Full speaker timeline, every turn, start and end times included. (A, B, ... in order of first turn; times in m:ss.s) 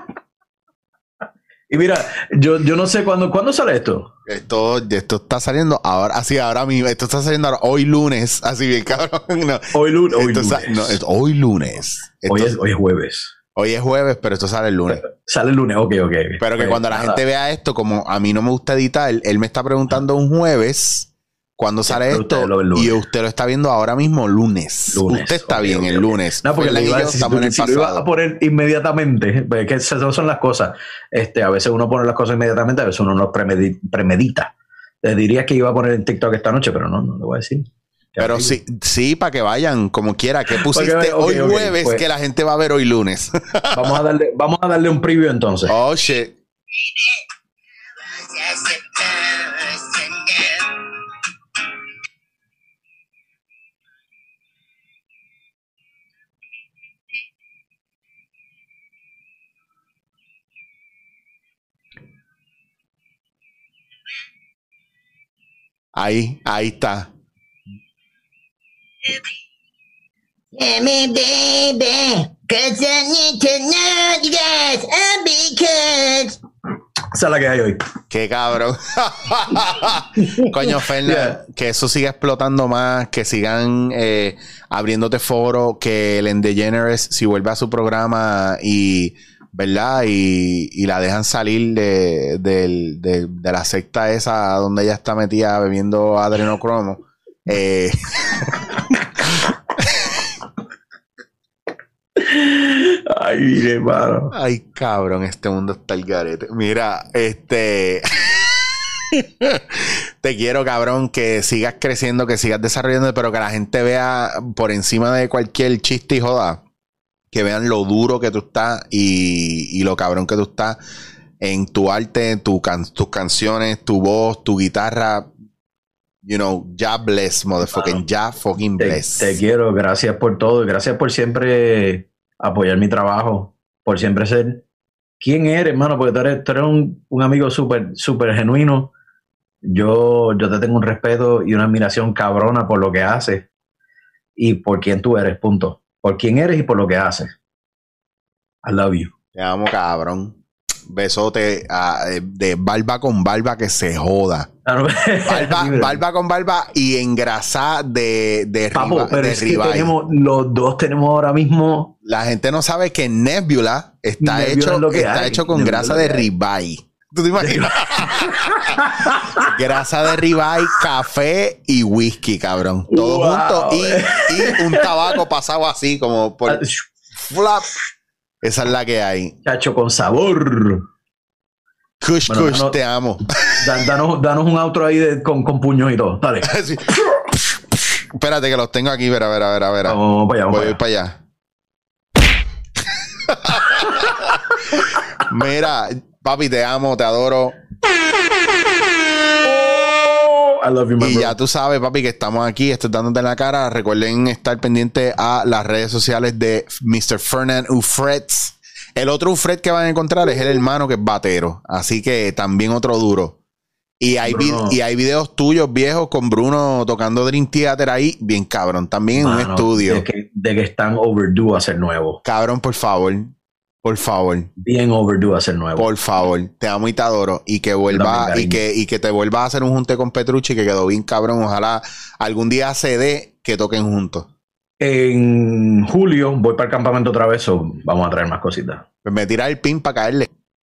0:01.7-0:04.1 A
0:04.3-0:12.5 B
0:09.7-0:11.0 A
0:12.3-0:13.3 A
0:13.6-0:15.0 B
0:14.9-0:17.2 A
0:16.4-0:28.0 B
0:21.9-0:23.0 A
0:24.9-0:38.6 A
0:38.2-0:44.0 B
0:40.6-0:42.0 A
0:43.7-0:45.8 A
0:45.7-0:46.4 B
0:48.0-0:50.9 C
1:05.9-1:07.1 B
1:10.6-1:16.4 C
1:17.1-1:17.8 A
1:18.1-1:40.3 B
1:20.2-1:21.4 A
1:42.2-1:44.3 A
1:44.3-1:56.6 B
1:57.3-2:00.8 B
2:01.4-2:05.3 B
2:06.2-2:09.4 B
2:07.7-2:08.0 A
2:08.8-2:14.6 A
2:15.2-2:18.9 A
2:19.7-2:23.5 A
2:24.4-2:27.3 A
2:28.6-2:29.1 A
2:29.4-2:30.4 B
2:30.9-2:34.5 B
2:34.7-2:36.0 A
2:35.3-2:39.9 B
2:38.7-2:41.9 A
2:42.0-2:57.7 B
2:44.2-2:46.3 A
2:47.4-2:49.6 A
2:52.9-2:55.1 A
2:56.5-2:56.8 A
2:58.4-2:59.4 B
2:59.4-3:00.9 A
3:02.0-3:03.3 B
3:02.3-3:02.8 A
3:03.5-3:06.5 A
3:06.5-3:10.0 B
3:09.8-3:10.8 A
3:10.5-3:11.2 B
3:13.2-3:17.6 B
3:13.8-3:14.1 A
3:19.4-3:21.4 A
3:21.0-3:33.4 B
3:34.0-3:40.0 B
3:34.3-3:34.8 A
3:39.2-3:42.2 A
3:42.2-3:44.5 B
3:44.6-3:45.9 A
3:45.8-3:54.3 B
3:47.9-3:48.6 A
3:54.8-3:58.8 A
3:59.0-4:00.3 B